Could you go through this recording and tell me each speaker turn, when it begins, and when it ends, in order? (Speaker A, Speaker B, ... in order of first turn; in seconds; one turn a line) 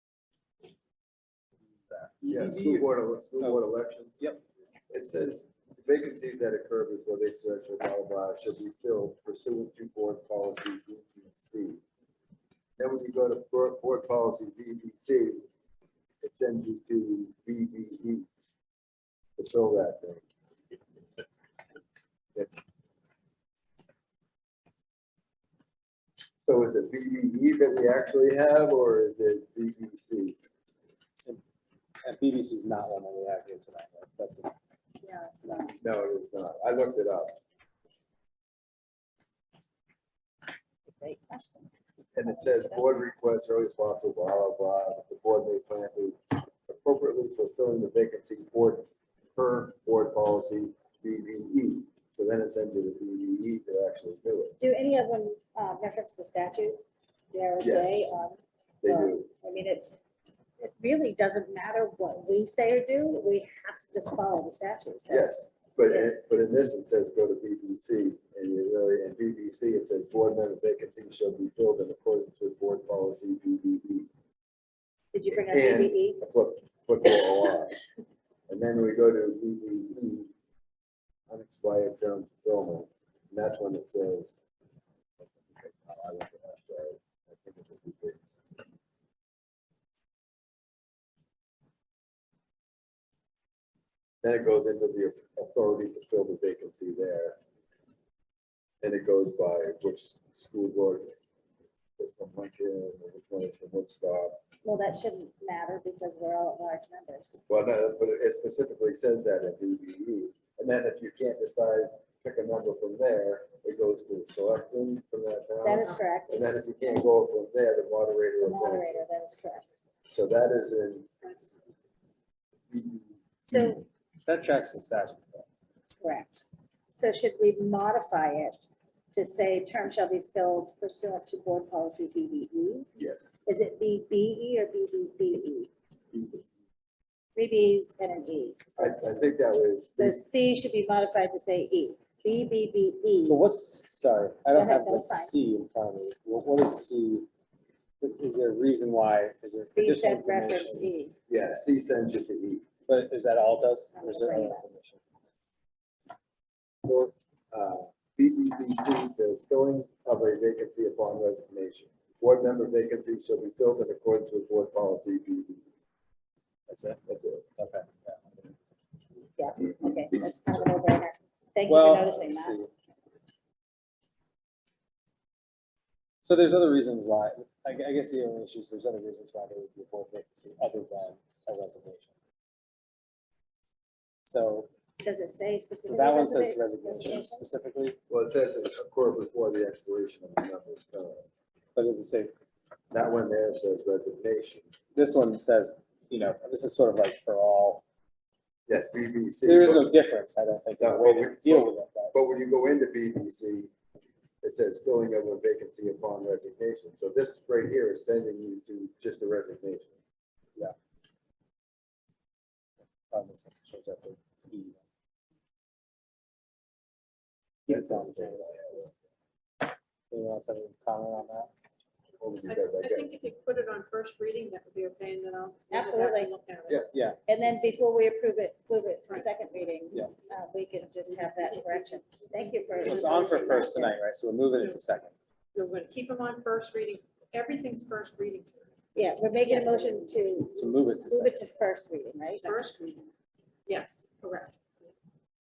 Speaker A: 1.9-2.9
Speaker B: 2.2-4.2
Speaker B: 4.9-11.8
Speaker B: 12.8-15.4
Speaker B: 16.2-18.3
Speaker B: 19.4-20.2
Speaker B: 26.4-30.4
Speaker A: 32.0-34.5
Speaker C: 35.0-35.8
Speaker B: 35.8-37.4
Speaker C: 40.9-41.7
Speaker B: 42.1-54.5
Speaker C: 42.2-42.9
Speaker C: 54.6-60.0
Speaker B: 57.6-58.1
Speaker B: 58.8-59.3
Speaker C: 60.6-65.3
Speaker B: 65.1-74.1
Speaker C: 65.8-66.3
Speaker C: 75.1-76.2
Speaker B: 75.3-77.8
Speaker B: 78.5-80.3
Speaker B: 81.3-84.3
Speaker B: 85.2-88.2
Speaker B: 94.2-97.4
Speaker B: 98.8-101.2
Speaker B: 102.0-104.4
Speaker C: 104.6-107.4
Speaker B: 107.5-119.0
Speaker C: 115.6-116.5
Speaker C: 118.4-119.8
Speaker B: 120.1-121.1
Speaker D: 121.2-121.5
Speaker B: 122.7-123.7
Speaker C: 123.5-123.8
Speaker A: 124.2-125.4
Speaker C: 126.0-132.9
Speaker B: 132.9-133.3
Speaker C: 133.4-135.7
Speaker B: 136.1-136.5
Speaker C: 137.3-139.0
Speaker B: 138.8-140.2
Speaker C: 139.9-143.4
Speaker A: 143.3-147.3
Speaker C: 144.5-145.3
Speaker A: 148.0-150.9
Speaker C: 149.5-151.1
Speaker B: 151.3-152.6
Speaker A: 152.9-155.0
Speaker C: 153.9-154.6
Speaker B: 156.8-165.6
Speaker A: 166.7-167.0
Speaker B: 167.1-167.5
Speaker A: 167.6-168.8
Speaker C: 169.4-172.6
Speaker A: 171.7-172.7
Speaker A: 176.2-182.1
Speaker A: 184.2-184.7
Speaker C: 185.0-187.4
Speaker A: 185.8-188.0
Speaker B: 188.1-191.2
Speaker A: 191.8-192.3
Speaker B: 192.9-194.7
Speaker A: 194.9-197.8
Speaker B: 198.7-199.9
Speaker A: 199.4-202.1
Speaker B: 200.8-203.7
Speaker B: 204.4-209.9
Speaker A: 213.1-214.8
Speaker A: 217.7-218.9
Speaker B: 217.7-218.9
Speaker A: 220.1-221.5
Speaker B: 222.2-223.1
Speaker D: 222.4-226.8
Speaker C: 225.7-226.3
Speaker A: 226.9-227.2
Speaker C: 227.3-233.9
Speaker D: 231.1-233.7
Speaker A: 232.8-235.1
Speaker D: 234.6-234.8
Speaker D: 235.5-238.7
Speaker C: 238.9-242.6
Speaker D: 239.5-240.1
Speaker A: 240.5-241.5
Speaker D: 242.4-243.1
Speaker D: 243.7-244.9